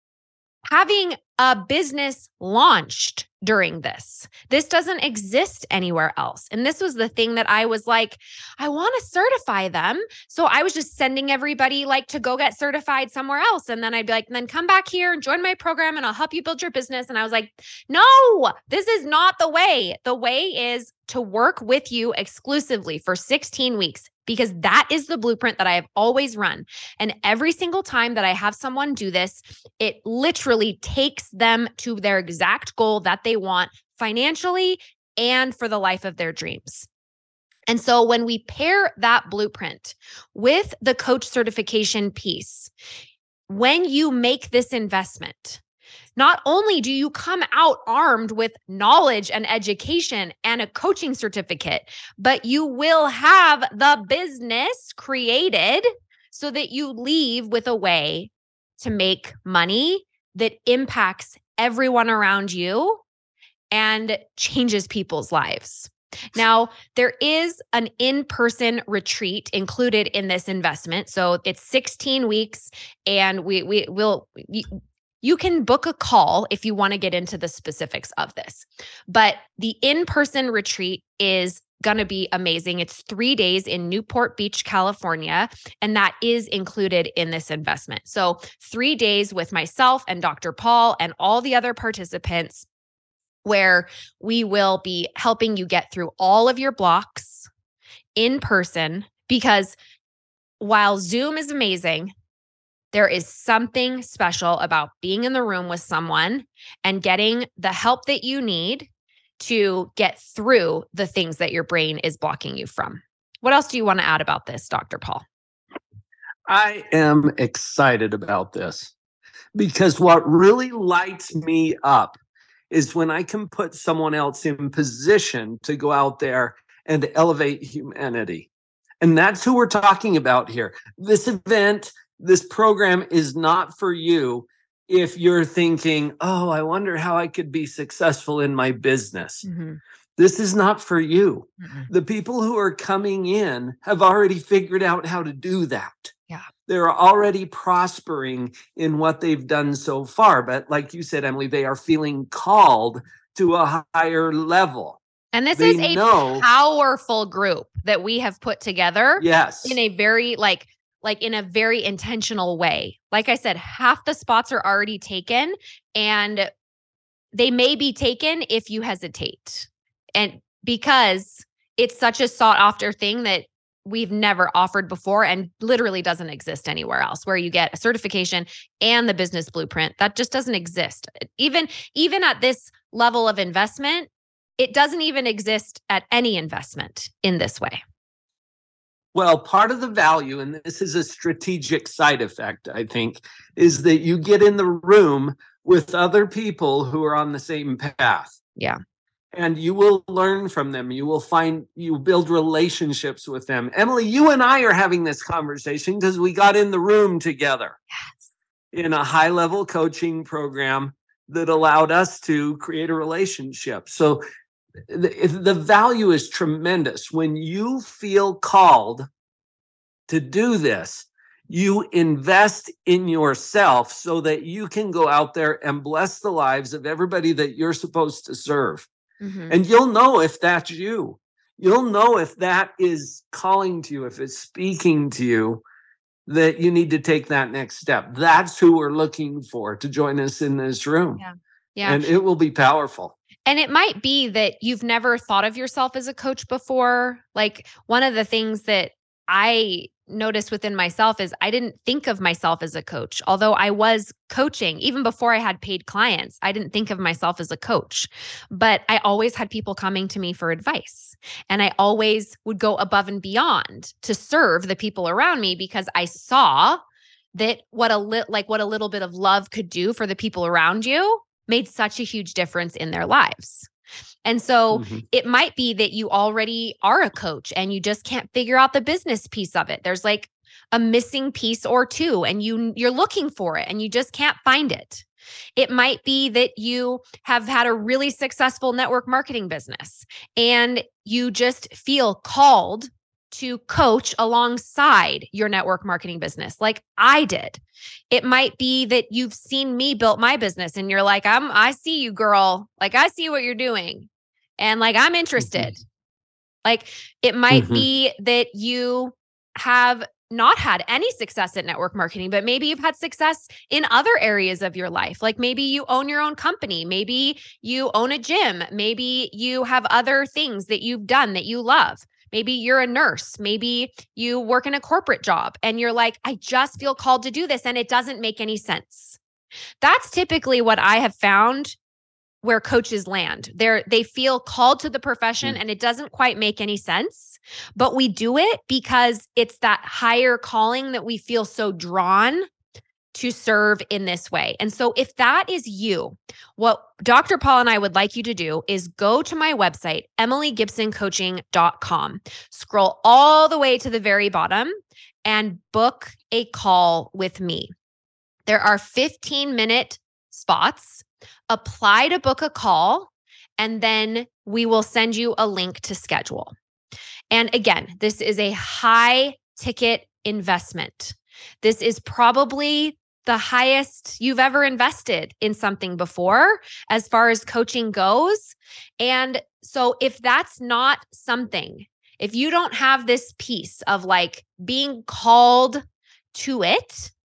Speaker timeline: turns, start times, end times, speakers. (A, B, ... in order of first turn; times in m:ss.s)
0:00.7-0:36.9 A
0:37.7-0:42.7 A
0:43.5-0:45.6 A
0:46.2-1:03.0 A
1:03.7-1:32.7 A
1:33.4-1:37.5 A
1:38.2-1:39.7 A
1:40.6-1:42.1 A
1:42.9-1:55.2 A
1:56.5-1:58.9 B
1:59.5-2:02.2 B
2:02.7-2:08.5 B
2:09.0-2:19.4 B
2:19.4-2:19.8 A
2:20.2-2:26.1 B
2:21.6-2:21.9 A
2:26.7-2:35.0 B
2:35.3-2:46.5 A
2:35.6-2:36.4 B
2:39.2-2:39.8 B
2:47.3-3:07.8 A
3:09.1-3:18.4 B
3:19.3-3:27.8 B
3:28.7-3:34.2 B
3:34.9-3:39.1 B
3:40.1-3:48.9 B
3:49.2-3:49.6 A
3:49.5-3:55.6 B
3:56.2-4:01.2 B
4:01.2-4:02.1 A
4:01.8-4:03.1 B
4:03.4-4:26.8 A
4:27.3-4:33.7 A
4:34.2-4:45.0 A
4:34.7-4:35.0 B
4:45.6-5:05.8 A
5:05.4-5:05.7 B
5:06.6-5:29.2 A
5:07.5-5:07.9 B
5:29.8-5:31.8 A
5:32.4-5:42.5 A
5:43.1-5:57.7 A
5:58.5-6:06.5 A
6:07.3-6:27.1 A